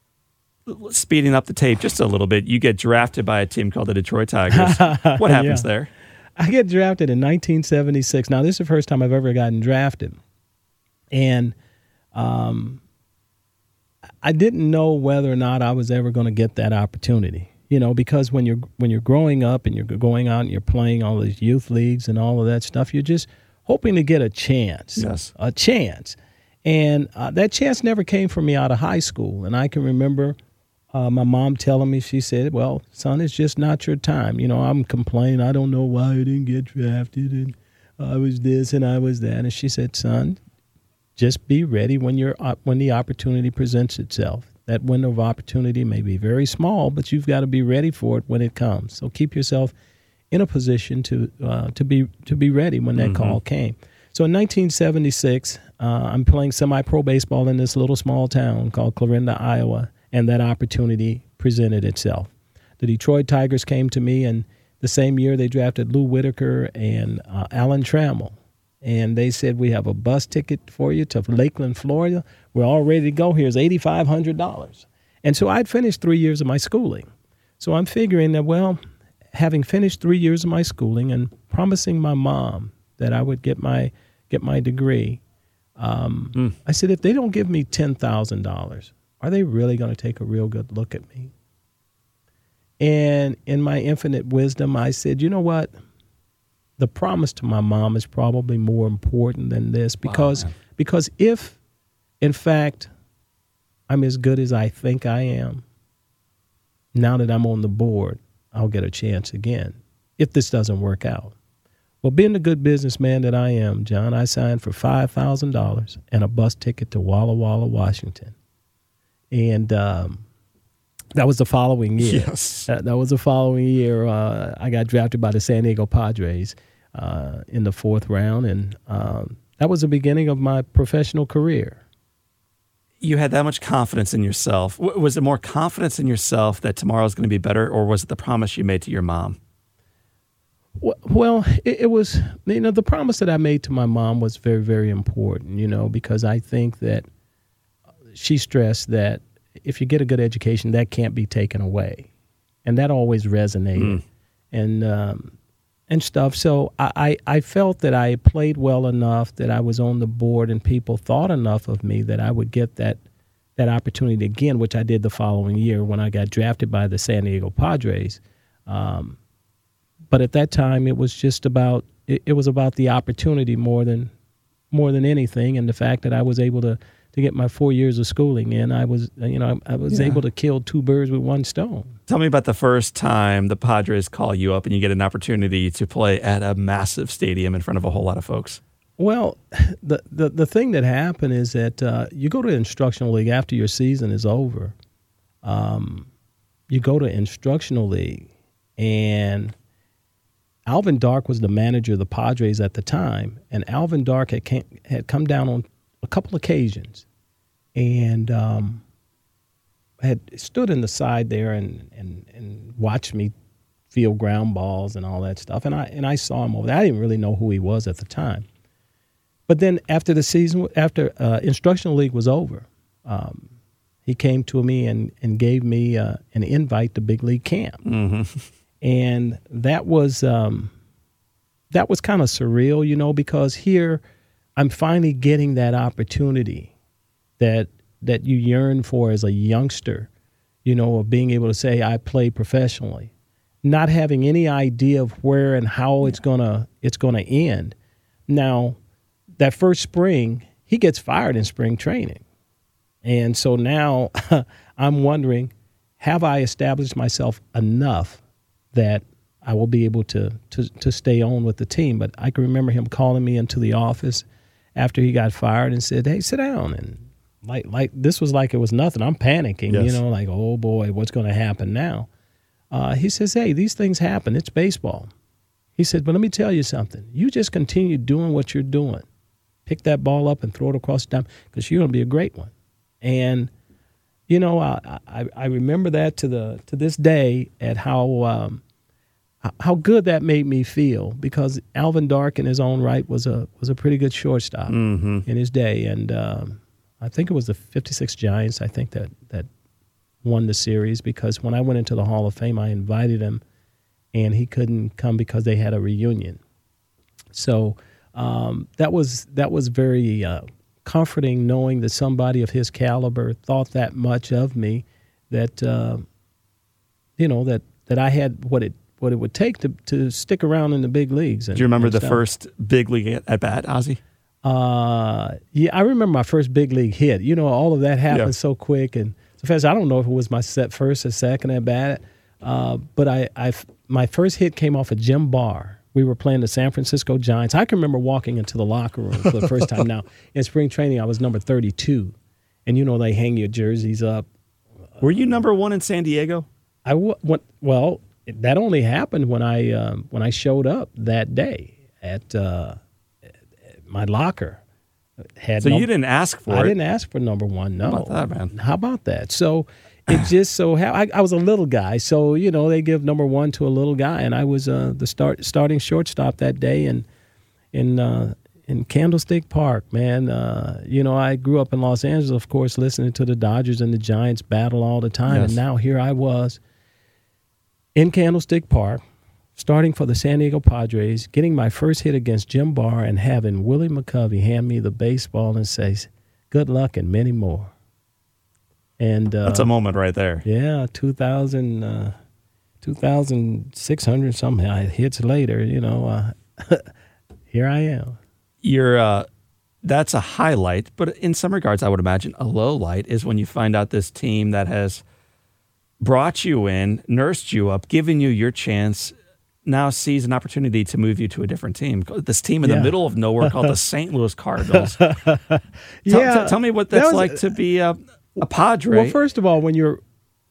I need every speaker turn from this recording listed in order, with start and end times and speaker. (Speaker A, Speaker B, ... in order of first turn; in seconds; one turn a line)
Speaker A: 0.7-5.9
Speaker B: 4.5-5.7
Speaker B: 6.4-10.2
Speaker B: 11.1-11.5
Speaker B: 12.1-12.8
Speaker B: 14.2-30.4
Speaker A: 25.0-25.3
Speaker B: 30.9-40.4
Speaker B: 41.1-49.7
Speaker B: 50.3-77.0
Speaker A: 53.0-53.4
Speaker B: 77.6-78.8
Speaker B: 79.3-85.2
Speaker B: 85.8-91.3
Speaker B: 92.8-95.7
Speaker B: 96.8-101.6
Speaker A: 100.0-100.5
Speaker B: 102.2-102.9
Speaker B: 103.9-105.6
Speaker B: 106.9-111.3
Speaker B: 112.0-118.3
Speaker B: 119.3-120.2
Speaker B: 121.1-131.8
Speaker A: 122.0-122.7
Speaker A: 133.0-139.4
Speaker B: 140.8-147.1
Speaker B: 148.1-152.1
Speaker B: 152.6-154.0
Speaker A: 153.8-154.0
Speaker B: 154.5-155.3
Speaker B: 155.9-163.0
Speaker B: 163.6-169.2
Speaker B: 170.1-174.1
Speaker B: 174.7-181.9
Speaker A: 179.9-180.2
Speaker A: 182.1-188.6
Speaker B: 189.0-194.7
Speaker B: 195.4-196.1
Speaker B: 196.7-199.5
Speaker B: 200.7-207.1
Speaker B: 207.7-208.8
Speaker B: 210.0-213.3
Speaker B: 213.9-218.4
Speaker B: 219.5-223.5
Speaker B: 224.1-227.8
Speaker A: 227.8-228.4
Speaker B: 228.8-230.7
Speaker B: 231.7-234.0
Speaker B: 234.6-236.7
Speaker B: 237.4-240.1
Speaker B: 240.6-243.1
Speaker B: 243.6-247.7
Speaker B: 248.3-248.8
Speaker B: 249.4-252.2
Speaker B: 253.0-258.2
Speaker B: 258.7-272.1
Speaker A: 269.7-270.0
Speaker B: 272.7-275.1
Speaker B: 275.8-279.0
Speaker B: 279.6-283.5
Speaker B: 284.3-288.6
Speaker B: 289.4-299.5
Speaker A: 294.7-295.2
Speaker B: 300.2-303.4
Speaker B: 304.1-306.4
Speaker B: 307.3-316.0
Speaker B: 317.2-322.3
Speaker A: 321.5-324.0
Speaker B: 324.4-342.1
Speaker A: 339.2-339.8
Speaker B: 342.6-344.2
Speaker B: 345.0-345.4
Speaker A: 345.0-346.5
Speaker B: 346.8-352.8
Speaker B: 353.9-354.6
Speaker B: 355.4-355.9
Speaker A: 355.6-356.7
Speaker B: 356.5-367.1
Speaker A: 357.9-358.5
Speaker B: 367.7-376.6
Speaker A: 375.3-375.6
Speaker B: 377.9-379.0
Speaker B: 379.6-387.7
Speaker B: 389.0-389.7
Speaker A: 389.4-390.4
Speaker B: 390.4-392.1
Speaker B: 392.8-396.9
Speaker B: 397.5-398.2
Speaker A: 398.6-399.2
Speaker A: 399.8-405.0
Speaker A: 406.0-409.1
Speaker A: 409.6-415.0
Speaker B: 412.6-413.7
Speaker B: 414.6-417.5
Speaker A: 416.1-419.1
Speaker B: 418.9-420.0